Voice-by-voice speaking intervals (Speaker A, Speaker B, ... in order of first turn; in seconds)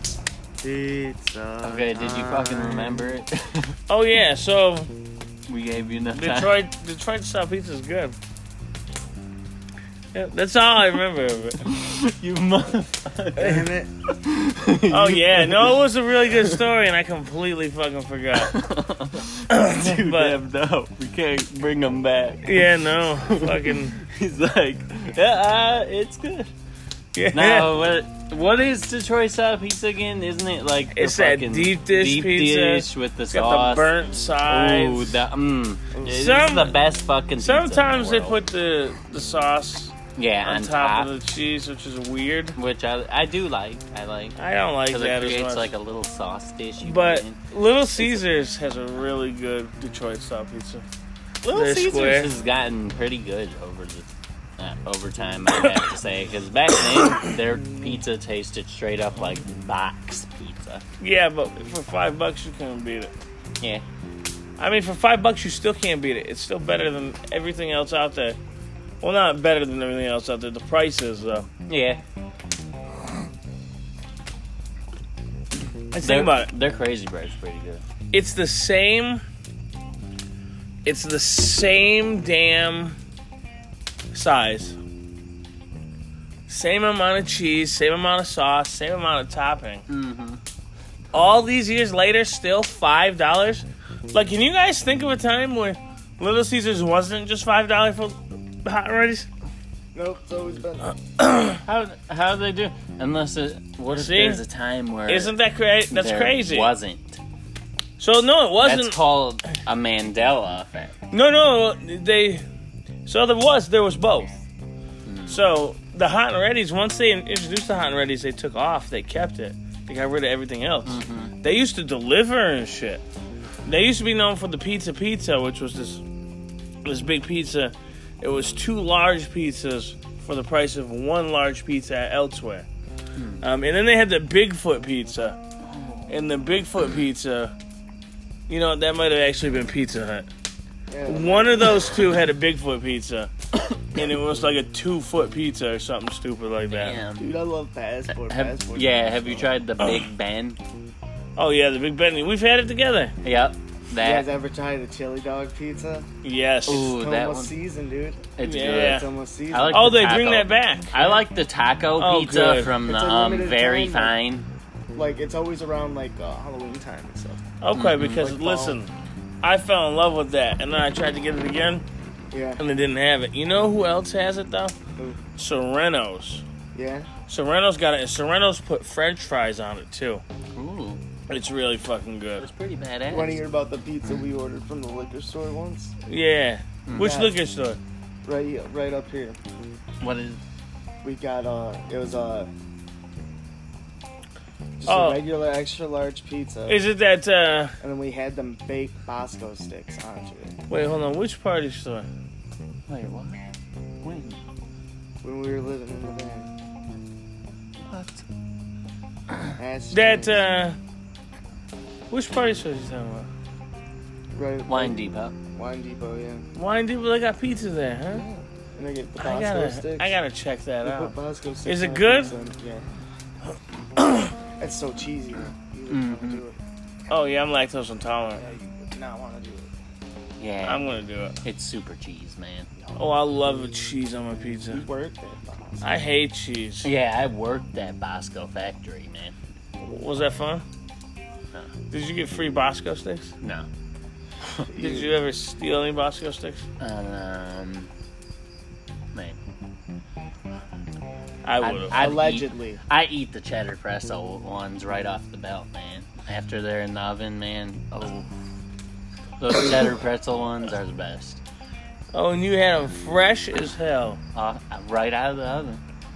Speaker A: 0.6-3.0, 13.4-13.9, 35.9-36.2, 100.0-101.0, 140.9-142.0, 147.2-149.5, 153.9-156.1, 156.8-159.8, 162.8-164.2, 164.9-167.4, 168.2-168.8, 172.3-172.6, 176.7-177.1, 183.1-185.9, 187.0-187.4, 188.2-189.4, 191.0-192.5, 194.8-196.8, 197.8-200.6, 205.2-206.5, 209.6-210.5, 214.3-215.0, 215.6-216.5, 218.1-220.1, 220.8-222.9, 224.6-226.6, 228.4-229.7, 234.7-235.9, 244.7-245.1, 251.9-252.8
Speaker B: 1.6-3.8, 5.5-6.5, 11.6-15.8, 16.3-16.6, 18.4-26.5, 27.3-33.9, 34.5-38.4, 40.2-41.1, 42.5-44.4, 44.9-47.4, 51.4-60.8, 71.7-72.0, 76.0-77.8, 89.9-90.4, 101.6-105.3, 105.9-107.2, 108.6-111.0, 115.0-115.4, 120.8-121.3, 133.2-133.4, 135.6-136.2, 146.7-147.3, 148.1-150.6, 153.2-154.3, 156.7-157.5, 158.4-164.5, 167.7-168.3, 180.5-181.0, 182.4-183.4, 186.9-187.1, 190.0-190.4, 202.9-203.4, 204.0-204.4, 207.8-208.2, 214.7-215.3, 225.9-226.4, 230.4-230.9, 231.4-232.7, 236.8-239.4, 243.4-243.7, 246.8-247.9, 251.6-258.3, 259.4-261.4, 264.4-265.8
Speaker C: 3.9-4.9, 6.2-8.2, 10.1-11.6, 14.9-18.5, 19.5-20.4, 22.4-24.0, 27.1-27.8, 30.9-35.2, 36.0-36.8, 37.4-42.6, 44.4-45.7, 46.8-50.8, 51.5-52.3, 55.6-55.8, 57.0-57.9, 61.0-63.1, 64.6-68.4, 69.0-71.5, 75.9-76.5, 78.1-79.2, 80.8-83.0, 84.1-84.8, 86.5-89.9, 91.1-99.3, 101.2-101.6, 103.9-104.4, 105.1-106.7, 108.0-109.0, 111.1-112.4, 113.1-114.4, 115.3-123.0, 123.7-126.0, 126.8-132.7, 133.4-135.4, 136.1-137.5, 138.5-140.3, 141.1-143.3, 143.9-147.0, 149.8-150.1, 151.4-153.2, 156.2-156.9, 158.4-159.1, 159.7-161.2, 162.0-162.8, 167.6-168.9, 169.4-171.8, 172.6-174.8, 175.4-176.4, 177.3-180.2, 181.3-182.5, 186.1-187.8, 194.9-195.2, 196.7-197.8, 200.7-202.1, 209.9-210.8, 212.1-213.3, 216.6-218.2, 219.2-222.3, 224.0-224.3, 227.1-228.4, 230.7-231.4, 233.0-234.8, 235.8-236.9, 239.8-240.6, 241.9-243.3, 244.8-246.6, 251.4-252.0, 262.1-264.2